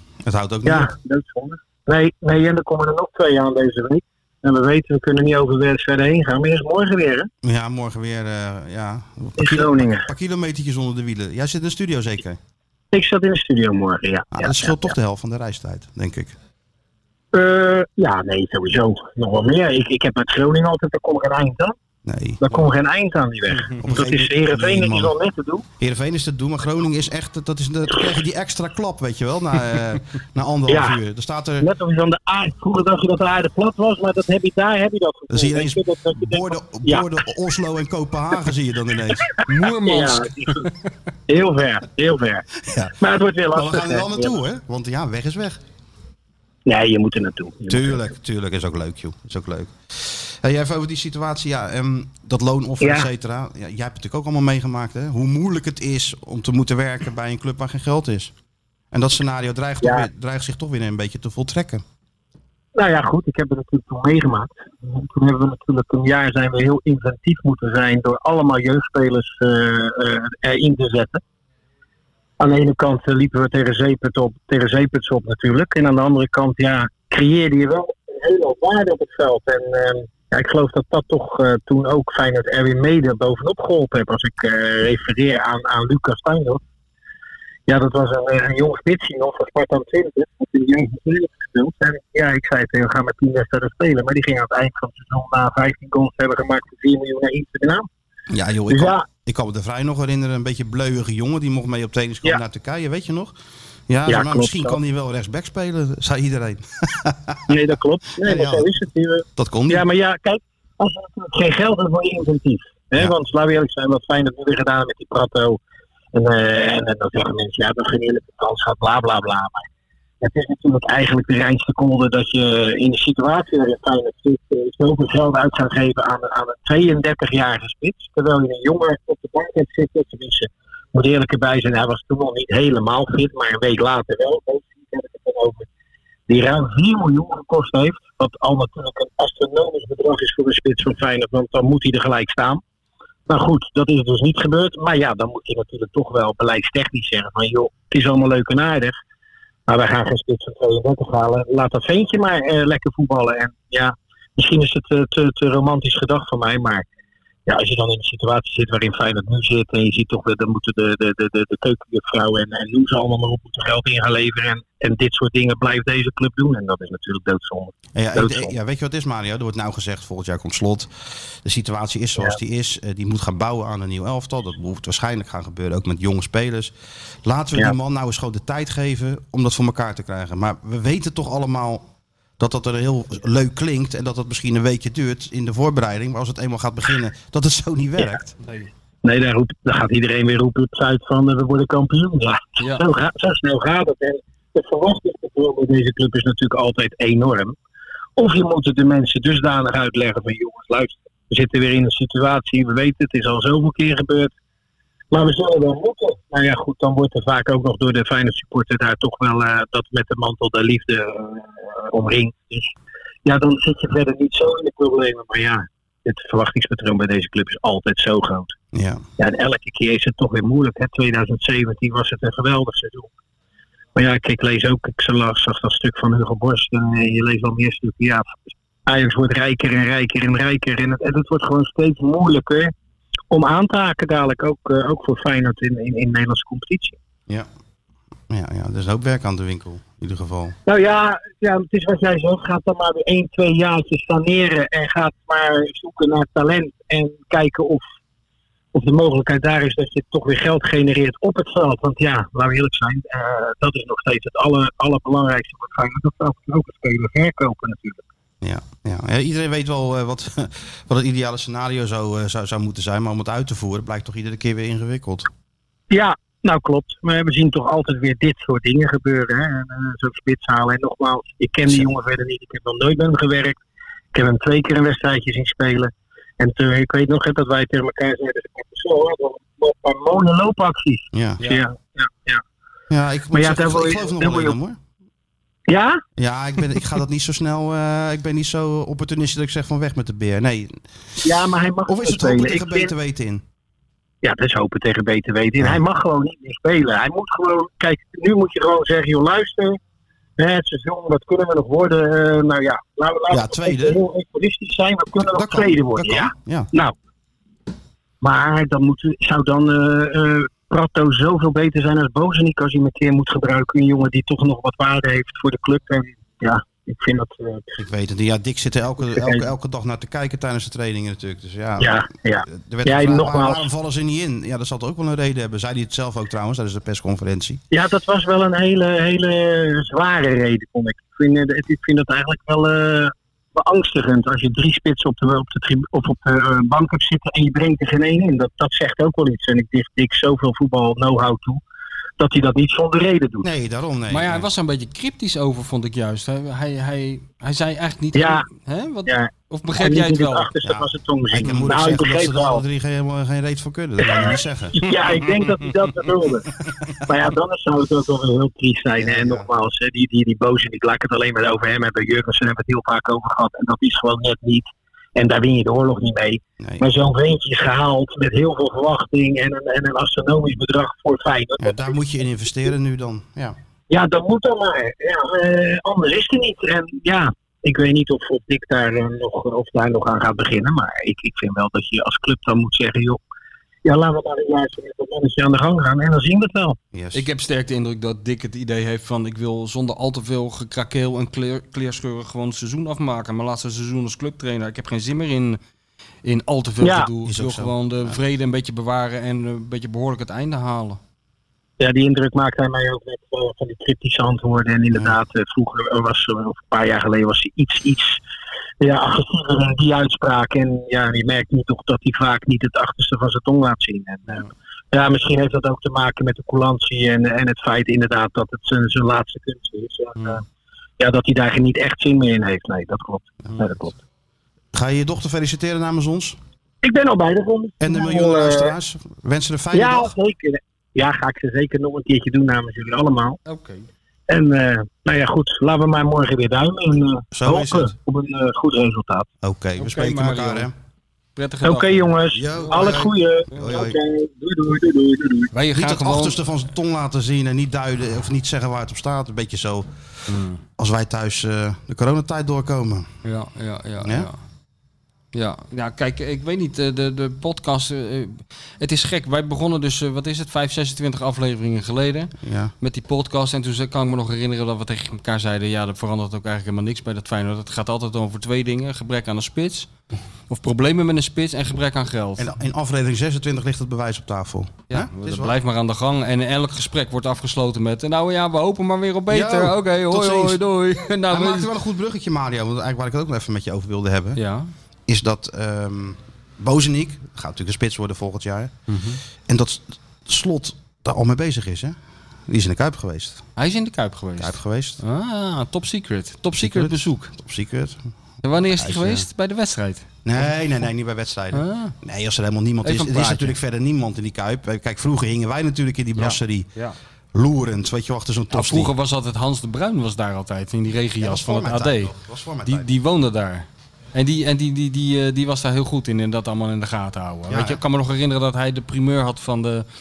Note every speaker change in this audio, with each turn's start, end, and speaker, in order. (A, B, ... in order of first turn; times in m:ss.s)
0:00.2-0:00.9 A
0:00.6-0:07.3 B
0:07.4-0:12.4 A
0:09.4-0:10.1 B
0:12.9-0:14.9 B
0:14.3-0:16.4 A
0:17.3-0:21.8 B
0:22.0-0:22.6 A
0:22.4-0:25.7 B
0:23.8-0:25.1 A
0:25.8-0:31.7 A
0:30.7-0:31.0 B
0:31.6-0:37.1 B
0:35.3-0:39.7 A
0:39.4-0:40.7 B
0:39.5-0:40.3 C
0:41.3-0:42.5 B
0:42.6-0:42.9 A
0:43.0-0:44.4 B
0:43.5-0:45.6 A
0:46.7-0:48.1 B
0:47.7-0:58.3 A
0:52.8-0:53.1 B
0:58.9-1:01.8 A
0:59.8-1:00.1 B
1:02.8-1:11.2 B
1:12.4-1:26.6 B
1:27.7-1:37.9 B
1:38.3-1:43.4 A
1:38.7-1:39.1 B
1:43.9-1:47.4 A
1:44.1-1:44.8 B
1:47.5-1:55.6 B
1:48.2-1:48.7 A
1:49.4-1:49.8 A
1:56.1-1:59.7 B
2:00.2-2:15.7 B
2:16.3-2:22.6 B
2:23.3-2:29.0 B
2:29.7-2:36.8 B
2:37.5-2:48.5 B
2:48.0-2:50.9 A
2:51.4-2:56.7 A
2:57.2-3:01.9 A
3:02.4-3:08.4 A
3:08.4-3:08.7 C
3:09.0-3:17.6 B
3:12.6-3:12.8 C
3:18.2-3:24.3 B
3:25.1-3:32.7 B
3:33.2-3:38.5 B
3:38.7-3:39.0 A
3:39.2-3:43.1 B
3:44.0-3:48.3 B
3:48.9-3:52.7 B
3:53.3-3:57.0 B
3:58.3-4:00.6 A
4:00.7-4:07.8 B
4:08.7-4:18.0 B
4:18.4-4:25.3 A
4:25.9-4:33.6 B
4:34.1-4:42.4 B
4:41.1-4:41.4 A
4:42.9-4:44.8 A
4:43.3-4:44.6 B
4:45.7-4:46.0 B
4:46.2-4:50.8 A
4:51.2-4:52.9 B
4:51.9-4:53.4 A
4:54.2-4:59.8 B
5:00.4-5:07.0 B
5:03.3-5:04.0 A
5:05.3-5:06.7 A
5:08.2-5:17.8 B
5:17.8-5:27.6 A
5:19.0-5:19.5 B
5:21.8-5:23.7 B
5:27.7-5:41.6 B
5:42.2-5:43.5 B
5:43.4-5:44.5 A
5:44.1-5:50.5 C
5:48.1-5:48.5 B
5:49.1-5:52.6 B
5:50.6-5:55.4 A
5:54.0-5:56.5 B
5:57.1-6:12.0 B
5:59.0-5:59.5 A
6:11.6-6:13.6 A
6:13.9-6:23.2 B
6:23.8-6:26.8 B
6:26.9-6:27.2 A
6:27.1-6:35.6 C
6:36.2-6:41.0 C
6:36.8-6:37.1 B
6:37.2-6:38.2 A
6:41.8-6:48.2 B
6:48.8-7:00.4 B
7:01.0-7:03.9 B
7:03.5-7:03.8 A
7:04.7-7:06.4 A
7:06.8-7:08.8 B
7:07.8-7:10.1 A
7:09.7-7:13.4 B
7:13.4-7:13.9 C
7:14.3-7:19.3 B
7:17.3-7:18.0 A
7:19.4-7:20.7 A
7:19.8-7:20.7 C
7:21.4-7:23.8 C
7:21.6-7:25.5 B
7:22.3-7:24.0 A
7:25.5-7:26.4 C
7:25.7-7:29.9 A
7:30.3-7:30.6 C
7:30.8-7:33.1 A
7:33.2-7:34.4 C
7:34.0-7:34.3 A
7:35.3-7:49.9 C
7:42.4-7:42.7 A
7:50.5-7:52.5 C
7:52.4-7:55.5 A
7:54.9-8:01.7 C
7:59.3-8:00.6 A
8:01.3-8:04.4 A
8:04.4-8:04.7 C
8:05.1-8:08.8 A
8:08.9-8:09.2 C
8:09.5-8:12.0 A
8:12.5-8:13.5 A
8:13.6-8:17.3 C
8:14.4-8:15.0 A
8:16.6-8:18.0 A
8:18.4-8:20.1 C
8:18.7-8:19.3 A
8:20.2-8:26.7 A
8:21.5-8:21.9 C
8:22.8-8:23.6 C
8:26.2-8:27.0 C
8:27.3-8:28.9 A
8:28.5-8:32.1 C
8:31.2-8:33.0 A
8:32.7-8:39.9 C
8:37.5-8:37.8 A